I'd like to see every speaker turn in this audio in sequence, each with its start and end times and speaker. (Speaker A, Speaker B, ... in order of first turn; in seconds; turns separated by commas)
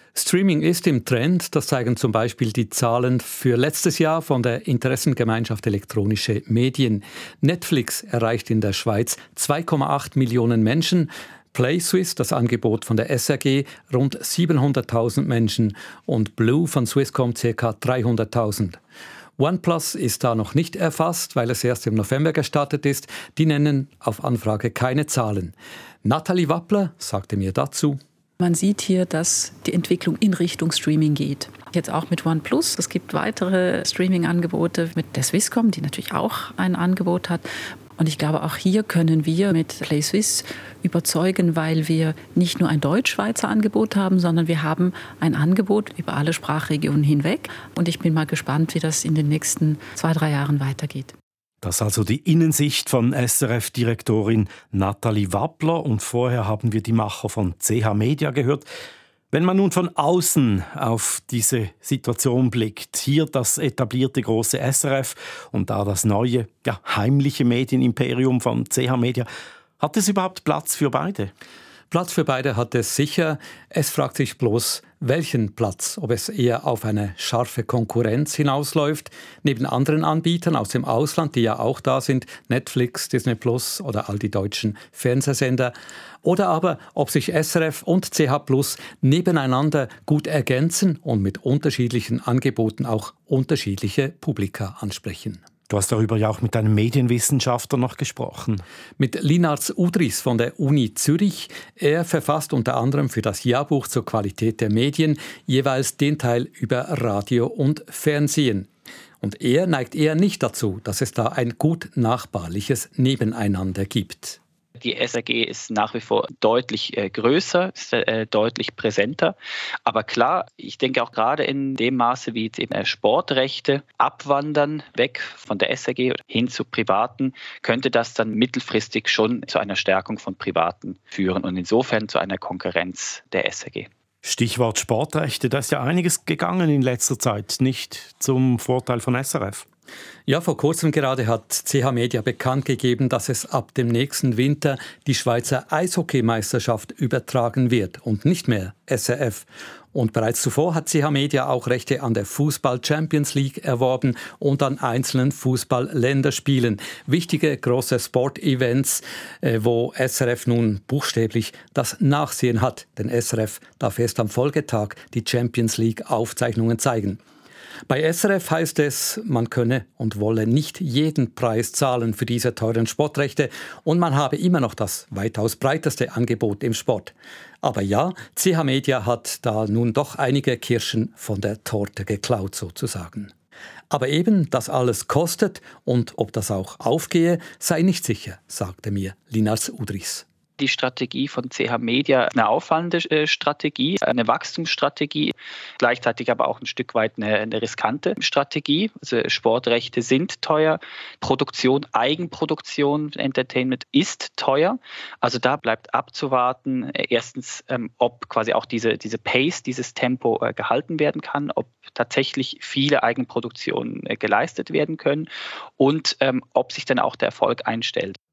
Speaker A: 0.2-18.8, Speaker A: 19.4-25.5, Speaker A: 26.0-28.0, Speaker B: 28.4-51.2, Speaker C: 51.6-58.7, Speaker C: 59.3-69.3, Speaker C: 69.8-71.3, Speaker A: 71.9-85.7, Speaker A: 86.2-95.4, Speaker C: 95.7-98.6, Speaker A: 99.0-108.7, Speaker A: 109.2-114.4, Speaker D: 114.8-133.9, Speaker C: 134.2-139.7, Speaker A: 140.3-167.2, Speaker A: 167.9-183.3, Speaker A: 183.9-190.2, Speaker D: 190.6-218.2